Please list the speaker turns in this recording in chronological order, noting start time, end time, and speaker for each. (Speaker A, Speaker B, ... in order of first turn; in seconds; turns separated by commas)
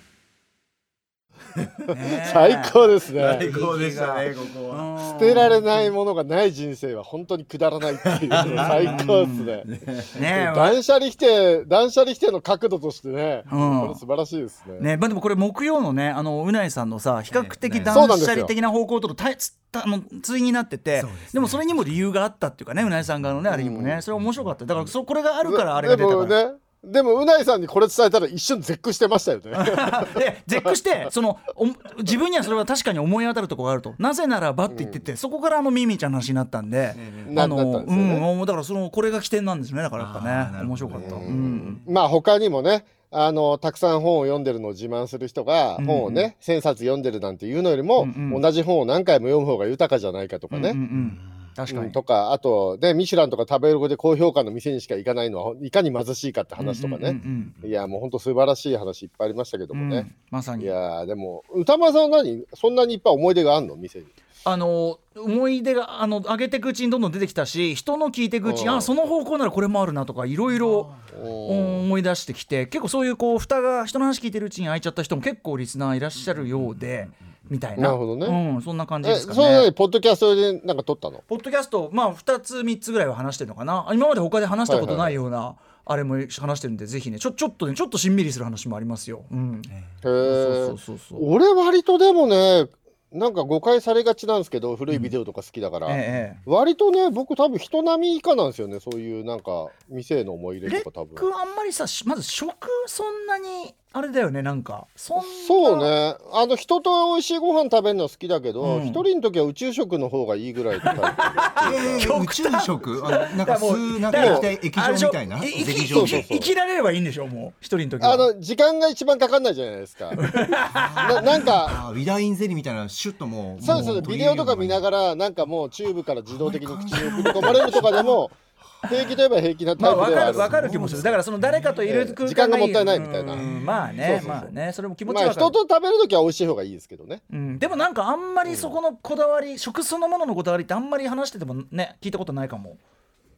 Speaker A: 1.6-1.8, Speaker B: 1.9-5.9, Speaker C: 2.1-3.5, Speaker A: 3.1-4.9, Speaker C: 5.0-9.7, Speaker A: 8.1-10.2, Speaker B: 8.4-9.5, Speaker B: 10.1-10.8, Speaker C: 10.2-14.9, Speaker B: 13.5-14.0, Speaker B: 14.8-26.4, Speaker A: 17.3-18.2, Speaker C: 17.9-18.5, Speaker A: 20.9-22.0, Speaker C: 23.5-24.0, Speaker A: 24.1-24.9, Speaker C: 25.5-30.2, Speaker B: 29.6-41.8, Speaker C: 34.7-35.0, Speaker A: 36.9-37.4, Speaker C: 37.3-38.3, Speaker A: 40.0-41.9, Speaker C: 41.0-50.8, Speaker B: 45.8-46.3, Speaker B: 48.0-48.4, Speaker B: 50.5-52.0, Speaker A: 50.9-51.5, Speaker C: 51.7-60.1, Speaker B: 56.6-57.6, Speaker A: 57.4-57.7, Speaker B: 59.7-60.7, Speaker C: 60.6-64.1, Speaker B: 64.4-70.9, Speaker C: 68.5-68.9, Speaker A: 70.5-71.1, Speaker C: 71.1-71.8, Speaker B: 71.5-79.7, Speaker A: 76.2-77.2, Speaker C: 77.8-78.4, Speaker C: 79.0-81.2, Speaker B: 81.3-89.7, Speaker C: 84.7-85.2, Speaker C: 90.0-101.3, Speaker B: 90.2-91.2, Speaker B: 95.9-96.4, Speaker B: 100.7-105.9, Speaker C: 105.2-112.1, Speaker B: 108.6-109.0, Speaker B: 110.8-118.3, Speaker A: 111.6-116.3, Speaker C: 114.1-114.5, Speaker C: 115.7-116.5, Speaker C: 118.0-120.2, Speaker B: 120.2-121.2, Speaker A: 120.7-124.8, Speaker C: 121.0-121.8, Speaker C: 123.6-131.2, Speaker B: 123.6-124.0, Speaker A: 126.3-128.2, Speaker B: 129.8-135.6, Speaker A: 130.1-131.8, Speaker C: 131.8-133.5, Speaker A: 133.3-134.4, Speaker C: 134.0-134.5, Speaker C: 135.1-137.2, Speaker B: 137.3-142.8, Speaker C: 138.4-138.8